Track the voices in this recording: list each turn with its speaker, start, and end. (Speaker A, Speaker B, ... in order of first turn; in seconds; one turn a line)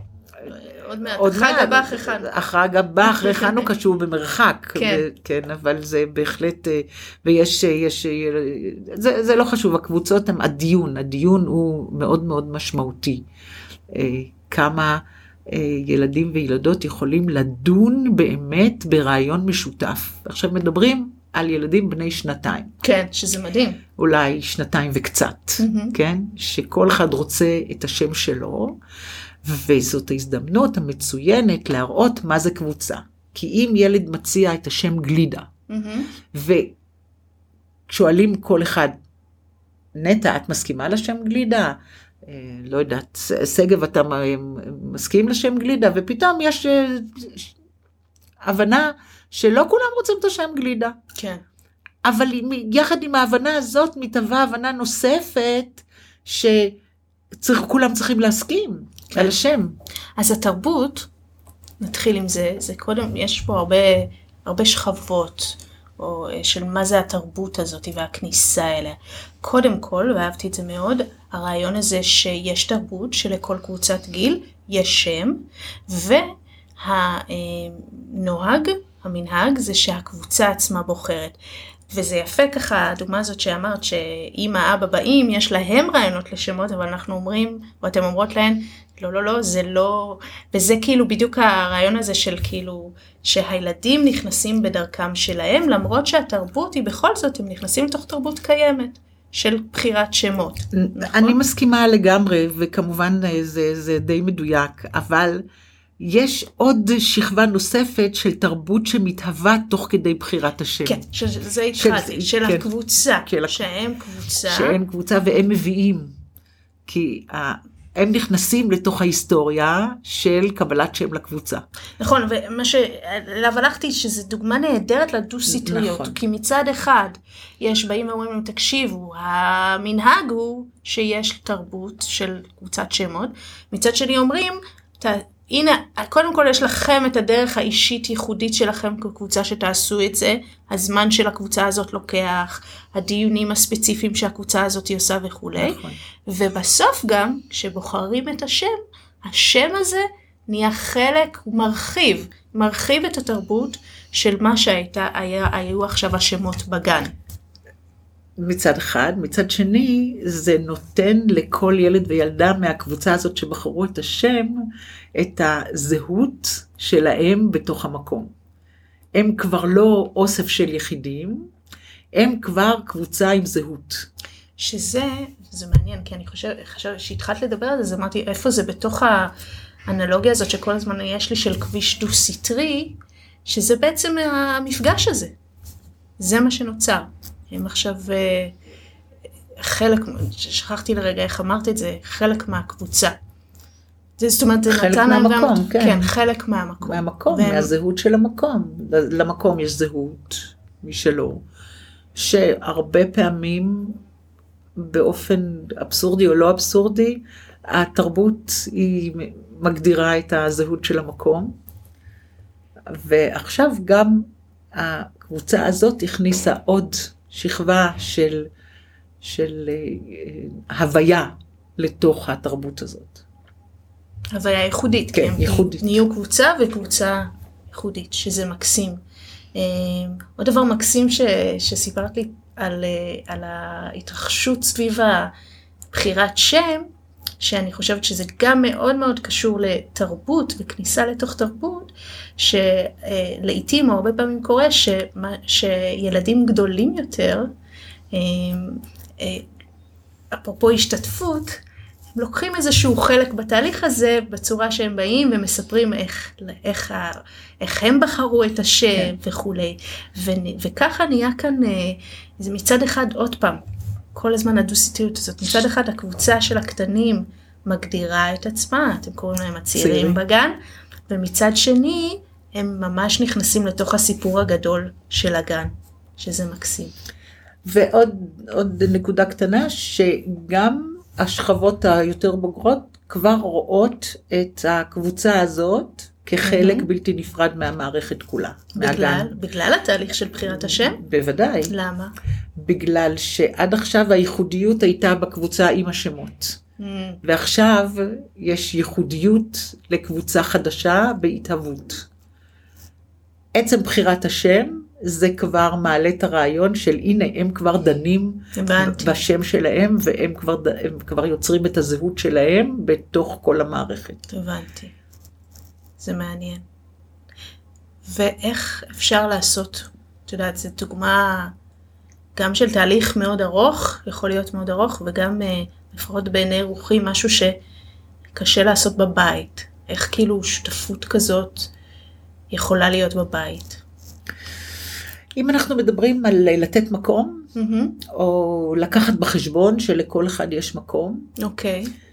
Speaker A: 0.5-2.3
Speaker B: 1.1-13.2
Speaker A: 3.0-3.7
Speaker A: 4.8-5.0
Speaker B: 13.9-22.7
Speaker A: 22.8-23.8
Speaker B: 24.0-28.8
Speaker A: 25.6-25.9
Speaker B: 29.4-35.5
Speaker A: 35.7-36.1
Speaker B: 36.3-36.7
Speaker B: 37.9-39.0
Speaker B: 40.0-47.5
Speaker B: 48.4-51.0
Speaker A: 51.1-51.4
Speaker B: 52.0-56.8
Speaker B: 57.3-59.8
Speaker A: 60.2-61.1
Speaker A: 61.8-81.4
Speaker A: 81.9-101.4
Speaker B: 100.7-105.4
Speaker B: 106.0-111.0
Speaker A: 110.8-114.8
Speaker B: 111.8-113.7
Speaker B: 114.5-116.1
Speaker B: 116.9-121.6
Speaker A: 122.0-157.1
Speaker B: 125.5-126.2
Speaker B: 145.6-146.0
Speaker B: 158.4-164.6
Speaker B: 165.2-168.3
Speaker B: 169.2-171.5
Speaker B: 172.2-174.1
Speaker A: 174.6-179.3
Speaker A: 179.9-185.3
Speaker A: 186.2-188.6
Speaker A: 189.6-193.2
Speaker A: 194.2-197.7
Speaker B: 194.7-196.1
Speaker B: 196.8-201.4
Speaker B: 202.2-204.0
Speaker B: 204.8-211.5
Speaker B: 212.9-218.5
Speaker B: 219.2-223.2
Speaker A: 224.3-229.0
Speaker B: 225.1-226.0
Speaker A: 229.6-235.3
Speaker A: 235.9-236.9
Speaker A: 237.4-247.5
Speaker A: 248.1-249.5
Speaker A: 250.3-251.6
Speaker A: 252.2-263.6
Speaker A: 264.1-270.6
Speaker B: 269.8-270.2
Speaker A: 271.1-276.9
Speaker B: 277.7-289.3
Speaker A: 286.4-286.9
Speaker A: 288.7-291.0
Speaker B: 290.4-291.7
Speaker A: 291.6-292.1
Speaker B: 292.6-296.6
Speaker A: 296.8-297.2
Speaker B: 297.2-302.1
Speaker B: 303.5-314.2
Speaker A: 308.6-309.2
Speaker A: 314.3-314.9
Speaker A: 316.0-316.6
Speaker A: 318.1-321.5
Speaker A: 322.4-327.6
Speaker A: 328.3-331.7
Speaker A: 332.5-333.8
Speaker B: 335.4-337.5
Speaker A: 337.6-338.0
Speaker B: 338.1-341.3
Speaker A: 341.4-341.9